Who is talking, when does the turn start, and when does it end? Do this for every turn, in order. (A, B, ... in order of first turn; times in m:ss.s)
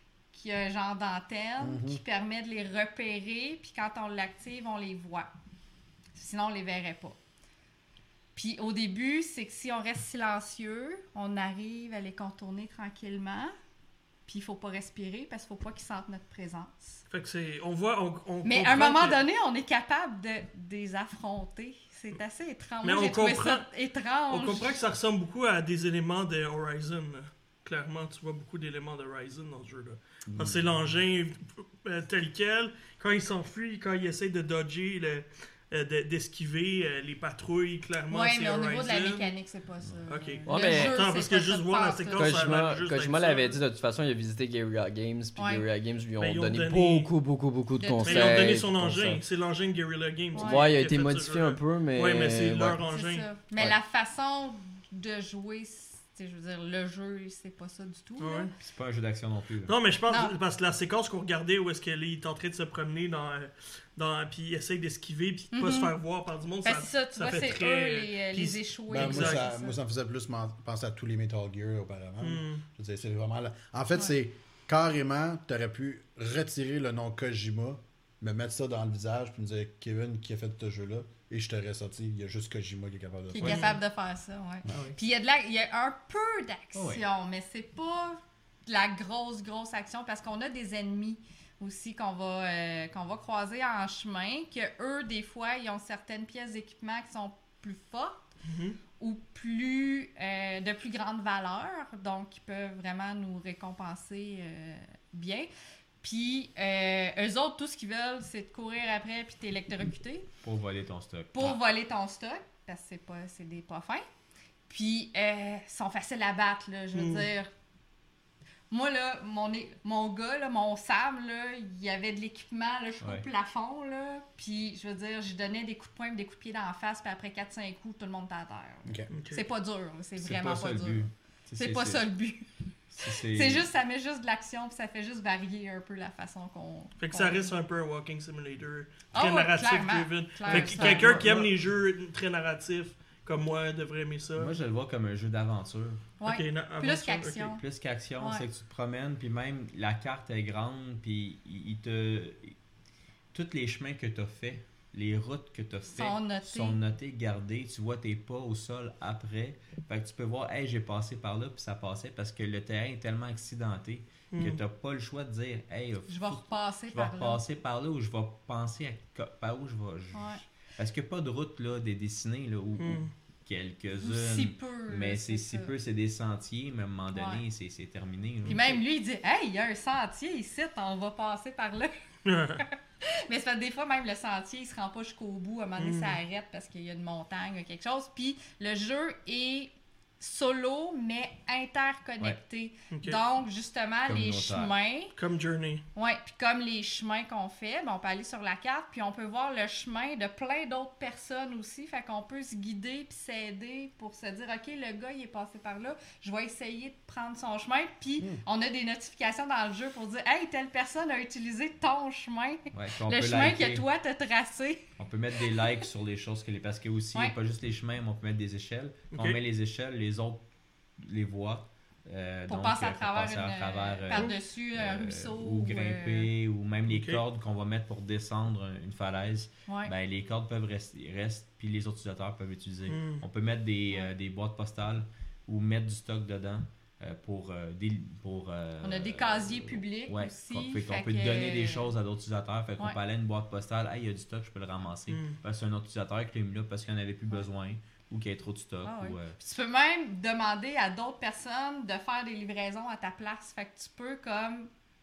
0:00.3-0:05.3 A
0:01.6-0:02.0 B
0:06.1-0:07.2 A
0:08.3-0:13.5 A
0:14.3-0:17.0 A
0:17.1-0:19.2 C
0:18.4-0:24.8 A
0:22.8-0:23.7 C
0:24.3-0:39.3 C
0:30.3-0:30.7 D
0:38.1-0:42.5 A
0:40.1-0:43.6 C
0:40.5-0:41.0 E
0:42.1-0:49.2 E
0:45.4-0:45.6 A
0:46.2-0:47.1 C
0:47.8-0:48.6 A
0:48.0-0:53.3 C
0:50.3-0:50.7 A
0:50.3-0:52.8 E
0:52.9-0:58.5 A
0:58.2-0:58.5 C
0:58.6-0:59.7 D
0:59.7-1:09.5 C
1:00.1-1:00.3 A
1:05.5-1:05.9 A
1:06.6-1:09.8 A
1:08.9-1:23.8 B
1:12.2-1:12.6 C
1:23.3-1:38.2 A
1:23.4-1:23.7 C
1:24.7-1:25.0 D
1:26.7-1:27.0 D
1:38.4-1:38.8 C
1:39.0-1:45.5 A
1:46.0-1:50.3 A
1:50.4-1:51.6 D
1:51.3-1:54.0 A
1:54.7-1:57.5 A
1:56.9-1:57.3 C
1:58.7-2:11.1 A
2:03.0-2:03.3 D
2:09.1-2:09.4 C
2:10.2-2:12.1 D
2:11.6-2:12.4 A
2:12.9-2:13.7 D
2:13.0-2:17.4 A
2:17.0-2:24.5 C
2:19.1-2:21.3 A
2:20.4-2:21.5 D
2:24.3-2:26.1 D
2:26.2-2:27.6 A
2:26.2-2:27.6 C
2:27.5-2:32.5 D
2:28.2-2:28.4 A
2:33.3-2:58.8 D
2:35.9-2:36.8 A
2:44.3-2:44.6 C
2:46.1-2:47.4 A
2:50.1-2:50.4 A
2:52.8-2:53.1 C
2:54.0-2:55.7 A
2:57.1-2:57.4 A
2:58.4-3:01.9 A
3:02.2-3:02.6 C
3:02.6-3:15.1 A
3:05.8-3:06.2 C
3:12.9-3:13.2 C
3:14.1-3:14.7 D
3:15.2-3:15.8 C
3:15.9-3:34.8 A
3:32.7-3:33.8 D
3:35.0-3:40.4 D
3:39.1-3:39.4 C
3:41.0-4:09.4 D
3:42.5-3:46.3 A
3:46.9-3:47.2 C
3:49.7-3:49.9 A
3:52.9-3:53.2 C
3:58.8-4:01.9 A
4:05.1-4:05.4 C
4:08.8-4:14.7 A